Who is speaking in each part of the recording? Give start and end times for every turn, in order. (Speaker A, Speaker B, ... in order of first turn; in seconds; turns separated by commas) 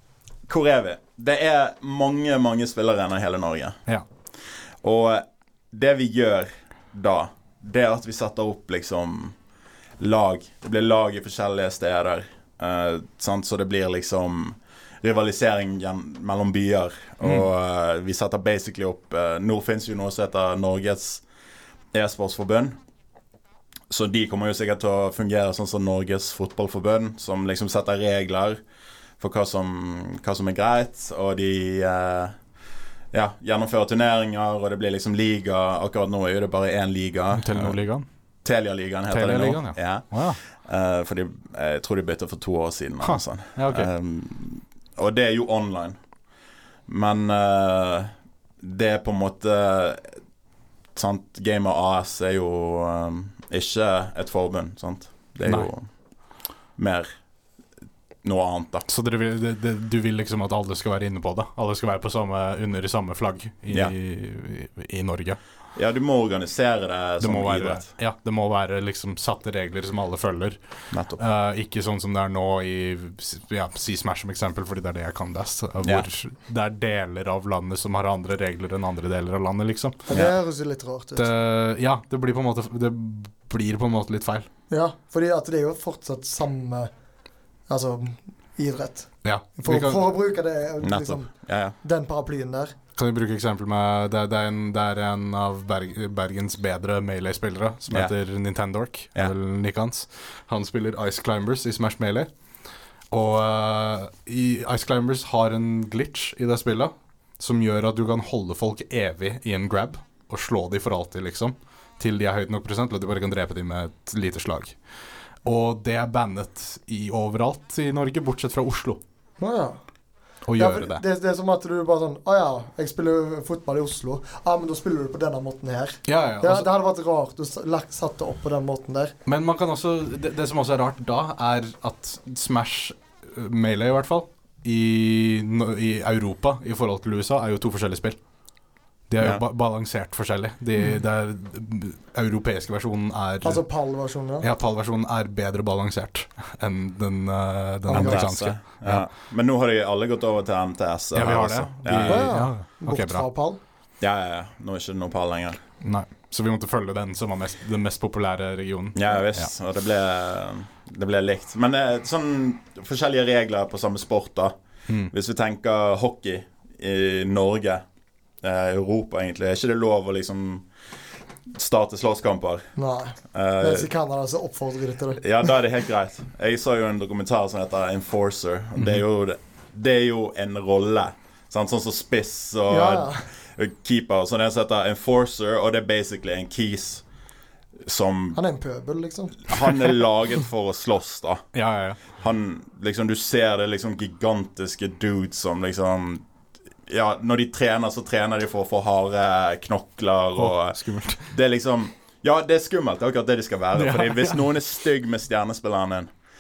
Speaker A: 0.5-3.8, Speaker A: 4.8-9.3, Speaker A: 10.0-21.2, Speaker A: 21.9-22.8, Speaker A: 23.9-28.6, Speaker A: 29.2-32.4, Speaker A: 33.1-37.8, Speaker B: 37.3-38.0, Speaker A: 38.4-46.0, Speaker B: 39.1-40.4, Speaker B: 43.0-43.9, Speaker A: 46.9-50.2, Speaker A: 50.9-55.9, Speaker A: 56.8-57.1, Speaker A: 58.2-58.9, Speaker B: 58.9-65.4, Speaker A: 65.7-67.8, Speaker B: 67.2-80.1, Speaker A: 70.9-71.2, Speaker A: 75.8-76.1, Speaker C: 80.1-81.3, Speaker B: 81.2-84.5, Speaker C: 84.7-86.9, Speaker C: 87.7-91.3, Speaker B: 89.2-90.0, Speaker A: 90.8-91.7, Speaker C: 91.8-92.7, Speaker B: 93.0-102.3, Speaker B: 103.1-114.8, Speaker B: 115.4-119.0, Speaker C: 119.4-119.8, Speaker B: 120.5-121.0, Speaker C: 120.5-129.1, Speaker B: 126.1-126.7, Speaker B: 129.2-138.2, Speaker B: 139.1-143.6, Speaker C: 143.4-144.5, Speaker B: 144.4-149.0, Speaker C: 147.9-148.2, Speaker A: 147.9-152.4, Speaker B: 151.1-153.2, Speaker C: 152.0-153.6, Speaker A: 154.0-155.6, Speaker B: 155.8-159.5, Speaker A: 158.9-164.5, Speaker A: 165.1-167.8, Speaker A: 168.4-170.7, Speaker A: 171.5-172.7, Speaker C: 172.8-175.2, Speaker A: 173.3-173.9, Speaker A: 175.2-187.0, Speaker C: 182.7-183.3, Speaker A: 187.8-188.4, Speaker C: 188.3-190.0, Speaker A: 189.4-191.4, Speaker B: 191.5-192.0, Speaker A: 192.1-196.2, Speaker A: 196.9-206.1, Speaker B: 200.3-201.3, Speaker B: 203.7-204.5